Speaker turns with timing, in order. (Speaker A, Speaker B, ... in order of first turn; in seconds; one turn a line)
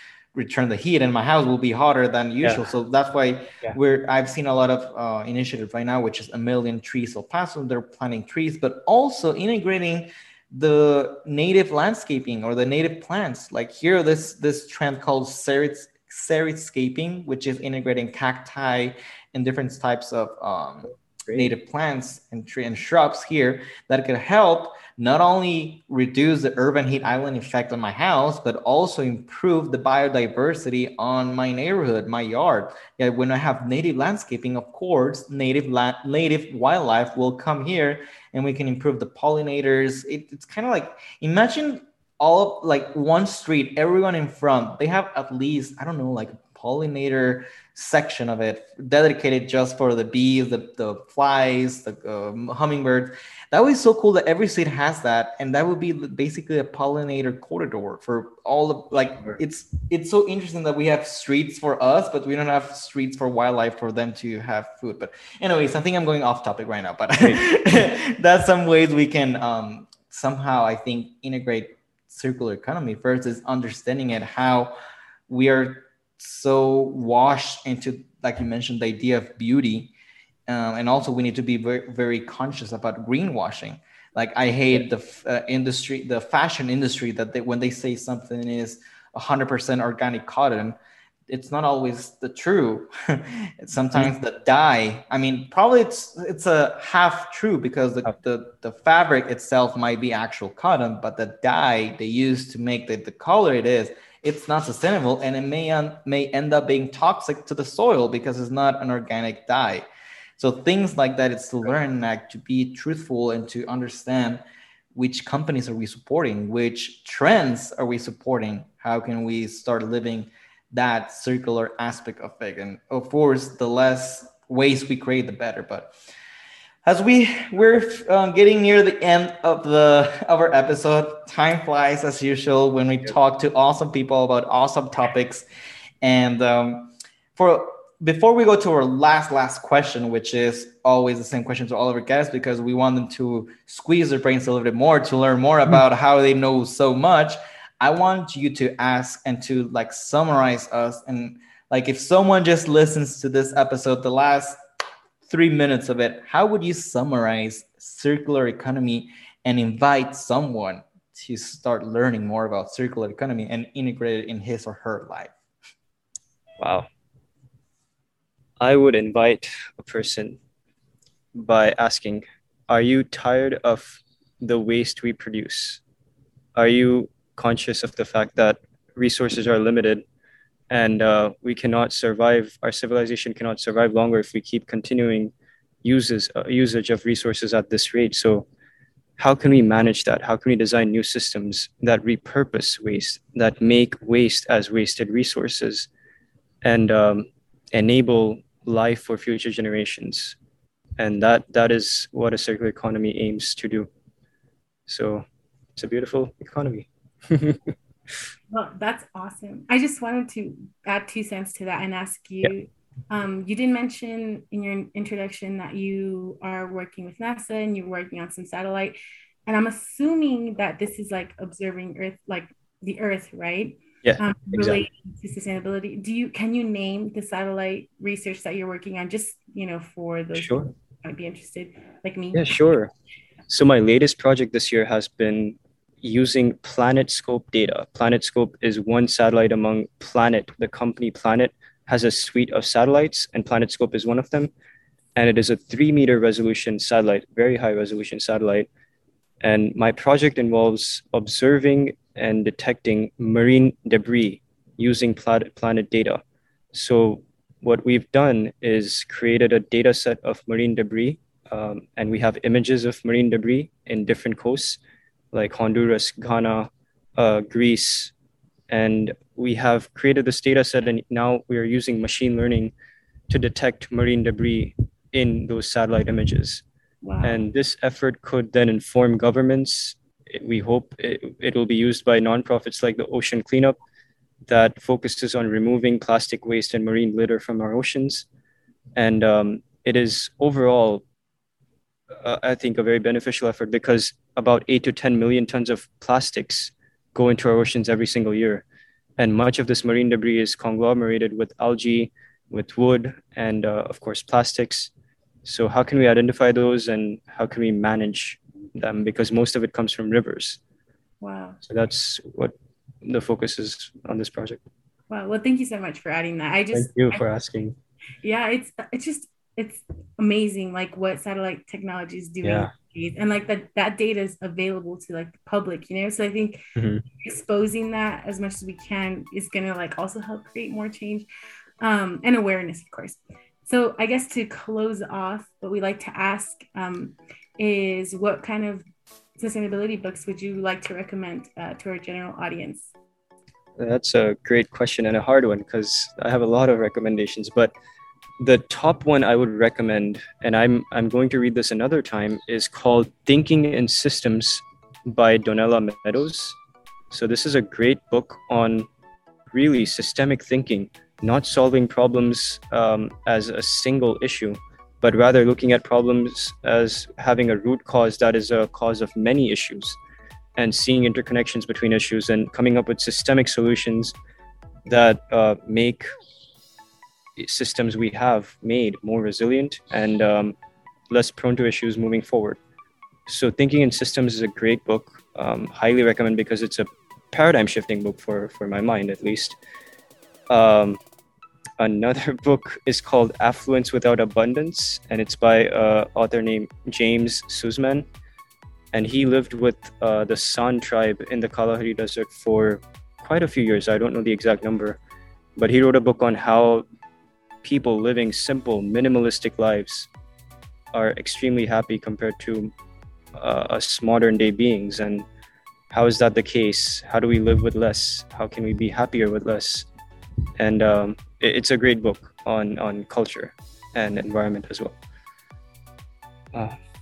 Speaker A: 0.3-74.7
Speaker B: 2.4-2.7
Speaker B: 21.2-21.5
Speaker A: 75.3-79.9
Speaker A: 80.5-90.8
Speaker A: 91.3-109.8
Speaker A: 110.4-114.4
Speaker A: 114.9-125.9
Speaker A: 126.8-135.4
Speaker A: 136.0-154.6
Speaker A: 155.2-165.3
Speaker B: 166.6-166.9
Speaker B: 168.6-170.4
Speaker B: 171.3-175.8
Speaker B: 176.5-180.0
Speaker B: 180.7-185.3
Speaker B: 185.8-188.4
Speaker B: 189.2-195.9
Speaker B: 196.6-200.3
Speaker B: 201.0-203.9
Speaker B: 204.9-205.2
Speaker B: 205.8-207.7
Speaker C: 208.5-232.6
Speaker B: 224.0-224.8
Speaker B: 230.3-230.7
Speaker B: 232.3-232.9
Speaker B: 233.5-244.5
Speaker B: 245.2-248.7
Speaker B: 249.4-256.2
Speaker B: 256.7-264.8
Speaker B: 265.3-268.1
Speaker B: 268.7-272.7
Speaker B: 273.3-276.6
Speaker C: 277.0-277.4
Speaker B: 277.2-283.8
Speaker B: 284.5-288.2
Speaker B: 288.9-291.0
Speaker B: 292.2-298.6
Speaker B: 299.2-304.9
Speaker B: 305.4-310.6
Speaker C: 311.2-311.6
Speaker B: 311.6-314.6
Speaker C: 315.1-317.2
Speaker B: 316.7-317.8
Speaker C: 318.2-326.6
Speaker B: 322.4-322.7
Speaker B: 326.8-327.0
Speaker C: 327.2-331.2
Speaker C: 331.8-338.9
Speaker C: 339.4-342.9
Speaker B: 343.8-347.7
Speaker B: 348.4-356.6
Speaker B: 357.1-358.9
Speaker B: 359.5-370.0
Speaker B: 370.6-374.1
Speaker B: 374.9-376.1
Speaker B: 377.4-380.6
Speaker B: 381.1-382.6
Speaker B: 383.3-389.6
Speaker B: 390.5-391.0
Speaker B: 391.8-398.1
Speaker B: 398.9-405.0
Speaker B: 405.6-406.8
Speaker B: 407.6-410.1
Speaker B: 410.9-412.7
Speaker B: 413.3-415.2
Speaker B: 415.9-419.9
Speaker B: 420.6-424.9
Speaker B: 426.5-426.8